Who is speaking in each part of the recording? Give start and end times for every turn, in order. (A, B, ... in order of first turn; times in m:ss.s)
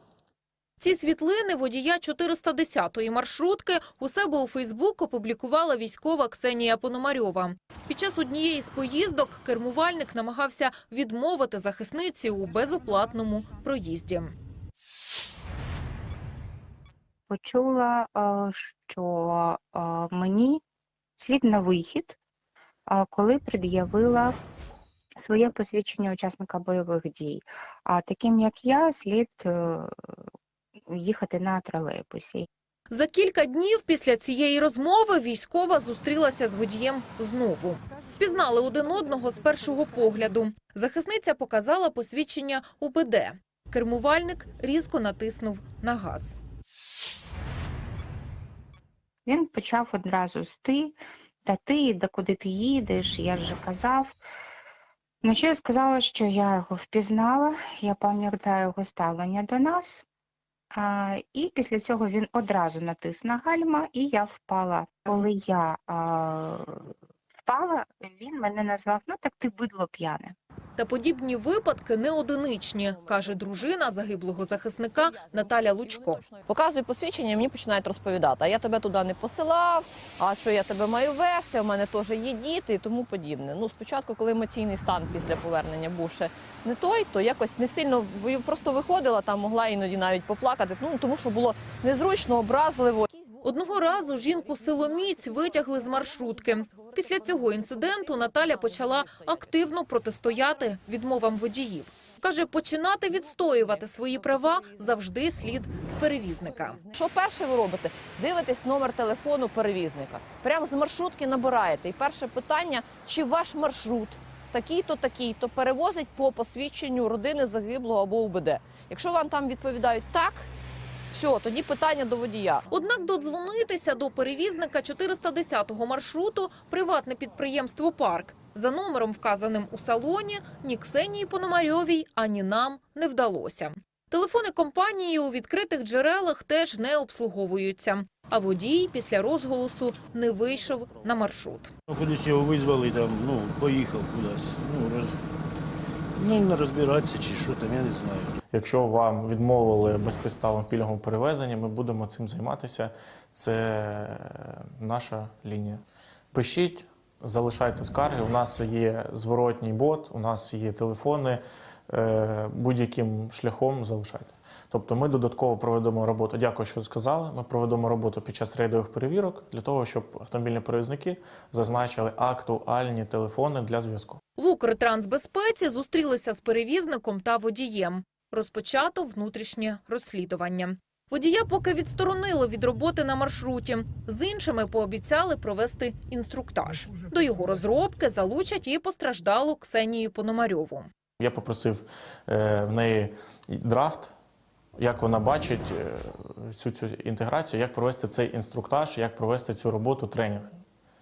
0:00.8-0:14.3 A
0:17.3-0:20.6 B
0:21.2-0:22.2 B
0:22.9-0:24.4 B
0:25.2-0:29.9 B
0:30.9-0:32.5 B
0:32.9-0:46.4 A
0:49.3-0:54.2 B
0:55.2-1:00.0 B
1:00.7-1:06.9 B
1:07.5-1:10.3 B
1:10.8-1:16.2 A
1:12.8-1:39.7 C
1:33.4-1:46.8 A
1:40.4-1:40.7 C
1:43.2-1:45.0 C
1:46.2-2:00.5 C
2:01.1-2:02.7 C
2:02.7-2:21.7 A
2:21.9-2:25.2 D
2:26.2-2:28.4 D
2:28.5-2:54.2 E
2:54.4-3:10.9 A
3:11.2-3:14.1 E
3:14.8-3:20.6 E